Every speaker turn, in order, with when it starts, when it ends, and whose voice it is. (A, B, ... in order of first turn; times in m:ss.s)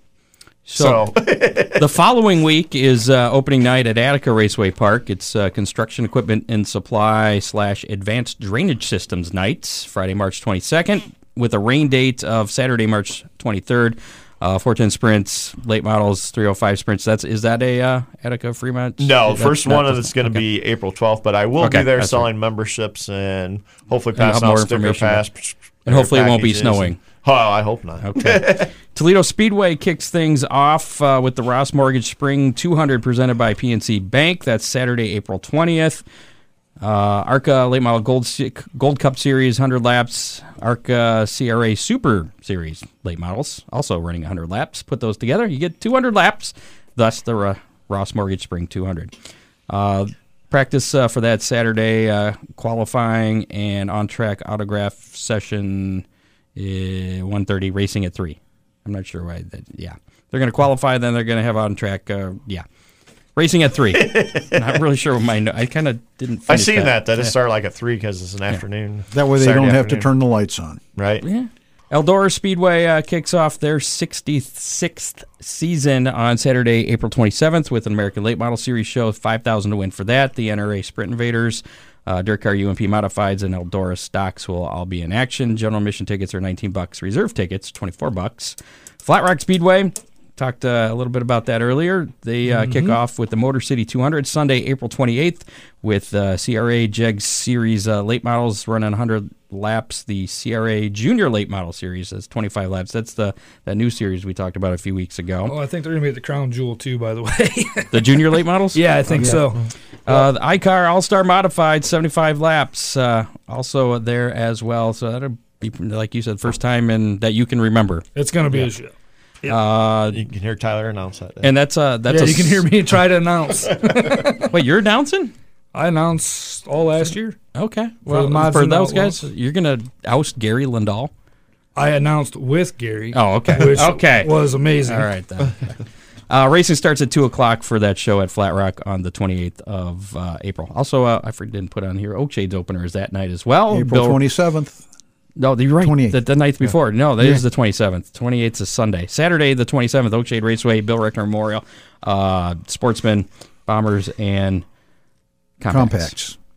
0:00.6-0:01.0 A
0:00.7-0:01.9 B
0:01.7-0:20.4 A
0:19.0-0:28.7 B
0:21.6-0:22.3 A
0:24.2-0:25.2 A
0:25.8-0:27.0 A
0:28.0-0:36.0 A
0:36.8-0:49.1 A
0:49.7-1:02.6 A
1:03.4-1:07.3 A
1:03.9-1:04.8 B
1:06.5-1:10.1 B
1:09.1-1:10.8 C
1:11.0-1:11.2 B
1:11.2-1:45.5 A
1:32.5-1:33.0 D
1:45.4-1:50.3 D
1:47.9-1:49.4 A
1:50.1-1:58.7 A
1:58.1-1:58.9 D
1:59.5-2:00.2 A
2:00.1-2:01.5 B
2:01.4-2:02.7 A
2:02.1-2:04.5 D
2:04.5-2:05.3 A
2:05.7-2:07.4 D
2:07.5-2:11.1 A
2:08.0-2:09.2 D
2:11.8-2:15.1 D
2:13.1-2:24.2 A
2:23.7-2:24.8 C
2:25.4-2:34.6 A
2:25.8-2:26.2 C
2:35.6-2:36.1 A
2:35.7-2:36.4 C